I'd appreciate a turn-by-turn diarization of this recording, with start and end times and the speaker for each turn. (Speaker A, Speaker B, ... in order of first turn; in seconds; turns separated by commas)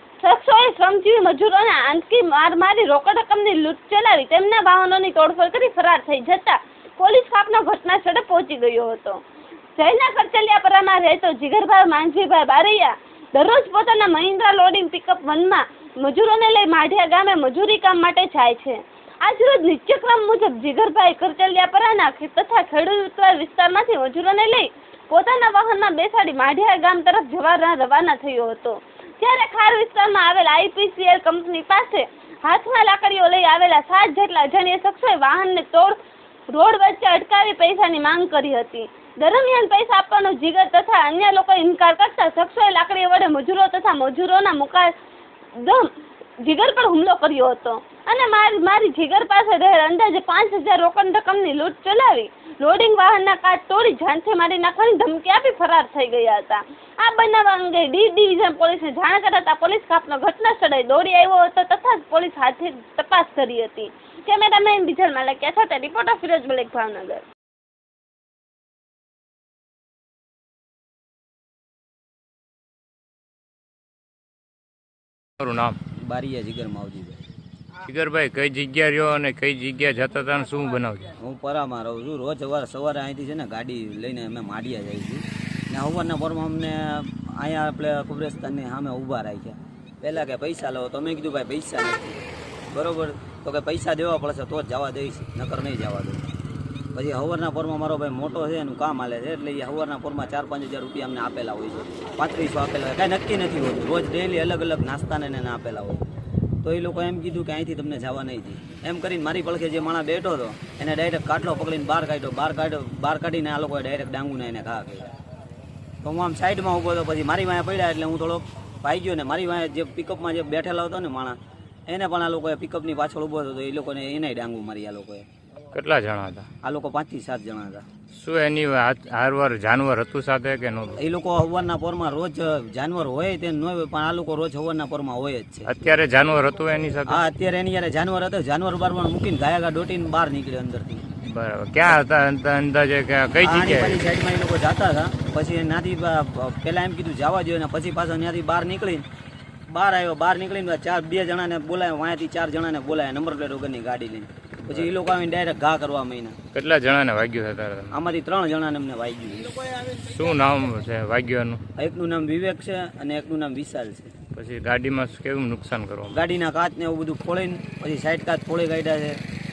Speaker A: 0.2-9.2, Speaker A: 9.8-36.0, Speaker A: 36.5-44.9, Speaker A: 45.6-67.2, Speaker B: 75.4-75.8, Speaker C: 75.9-77.2, Speaker B: 77.8-81.1, Speaker C: 81.2-96.2, Speaker C: 96.9-106.0, Speaker C: 106.6-115.1, Speaker C: 116.0-125.2, Speaker B: 125.7-126.5, Speaker C: 126.6-127.8, Speaker B: 128.1-131.0, Speaker C: 131.0-135.7, Speaker B: 135.7-137.2, Speaker C: 137.1-141.1, Speaker B: 141.2-144.0, Speaker C: 143.4-149.0, Speaker C: 149.7-156.4, Speaker B: 154.7-155.0, Speaker B: 156.5-157.9, Speaker C: 157.9-159.7, Speaker B: 159.9-161.6, Speaker C: 161.8-164.1, Speaker B: 164.3-166.2, Speaker C: 166.1-169.2